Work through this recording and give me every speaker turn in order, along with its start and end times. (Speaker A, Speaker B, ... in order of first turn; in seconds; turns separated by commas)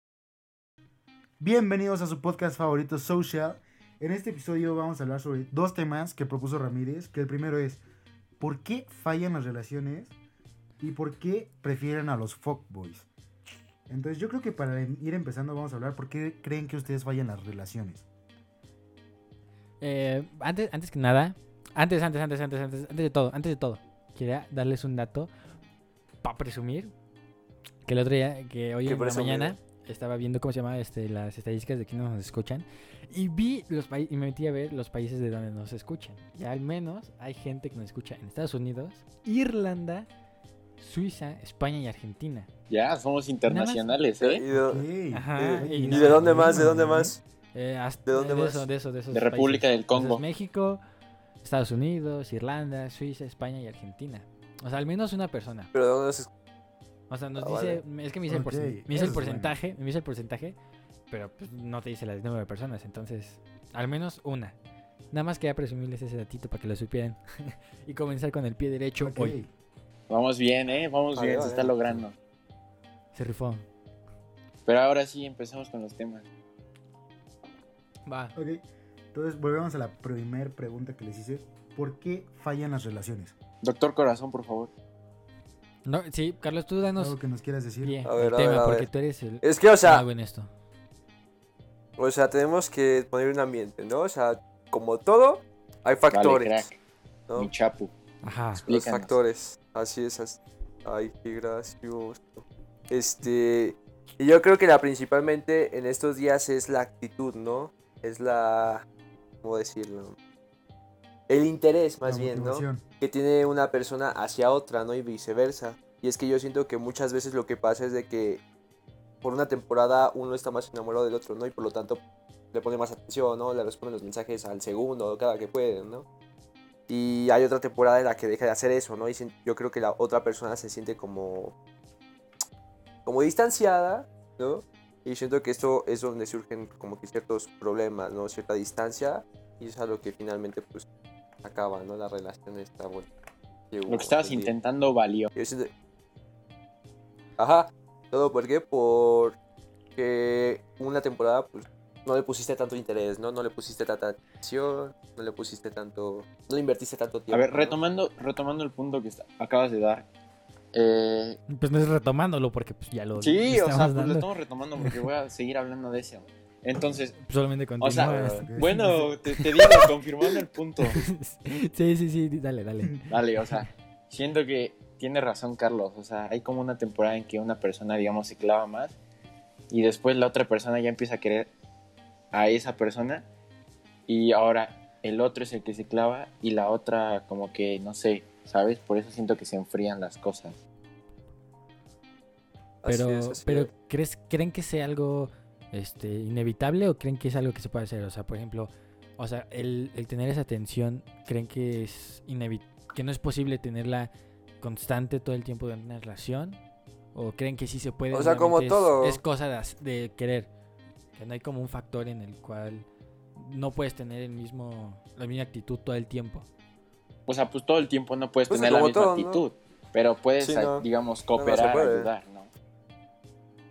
Speaker A: 1.4-7.8, Speaker A: 8.4-10.1, Speaker A: 10.8-13.1, Speaker A: 13.9-18.0, Speaker B: 19.8-25.3, Speaker B: 26.2-26.9, Speaker B: 27.9-40.1, Speaker C: 28.9-29.6, Speaker B: 40.8-42.5, Speaker D: 42.7-44.4, Speaker B: 43.5-44.0, Speaker C: 44.2-44.8, Speaker A: 44.5-47.1, Speaker B: 45.1-46.8, Speaker C: 45.5-47.2, Speaker B: 47.5-50.8, Speaker C: 48.1-48.6, Speaker D: 49.1-50.2, Speaker B: 51.4-55.7, Speaker C: 55.7-56.3, Speaker B: 57.1-60.5, Speaker C: 57.4-57.8, Speaker A: 58.3-59.5, Speaker B: 61.1-64.5, Speaker B: 65.1-69.4, Speaker A: 69.0-69.5, Speaker D: 70.1-72.1, Speaker C: 71.1-72.0, Speaker B: 73.1-73.6, Speaker D: 74.7-76.2, Speaker B: 78.0-78.3, Speaker A: 78.3-83.3, Speaker D: 83.6-84.7, Speaker B: 85.8-87.2, Speaker A: 87.0-88.0, Speaker B: 87.8-90.5, Speaker C: 88.0-88.9, Speaker C: 89.4-90.1, Speaker C: 92.0-96.7, Speaker D: 96.1-96.8, Speaker D: 97.4-97.9, Speaker B: 98.2-98.6, Speaker C: 98.6-108.8, Speaker D: 98.7-99.1, Speaker C: 109.4-110.1, Speaker C: 111.3-118.4, Speaker A: 112.0-112.8, Speaker C: 119.2-122.0, Speaker C: 122.5-126.0, Speaker C: 126.9-131.5, Speaker C: 133.0-140.8, Speaker C: 141.4-143.1, Speaker C: 143.7-144.5, Speaker D: 143.9-145.3, Speaker C: 145.3-145.7, Speaker C: 147.4-149.4, Speaker C: 150.0-157.8, Speaker D: 157.3-160.1, Speaker D: 160.7-161.4, Speaker B: 161.5-165.1, Speaker D: 163.2-167.2, Speaker B: 167.2-169.9, Speaker D: 167.8-171.1, Speaker C: 168.0-168.5, Speaker A: 168.2-169.1, Speaker B: 170.9-173.1, Speaker D: 173.1-178.9, Speaker D: 179.7-181.5, Speaker D: 182.3-183.2, Speaker D: 184.1-190.6, Speaker C: 192.8-193.7, Speaker B: 192.8-206.6, Speaker B: 207.1-210.5, Speaker C: 208.1-209.2, Speaker B: 211.1-216.5, Speaker D: 217.3-222.5, Speaker C: 218.5-219.4, Speaker C: 220.4-222.1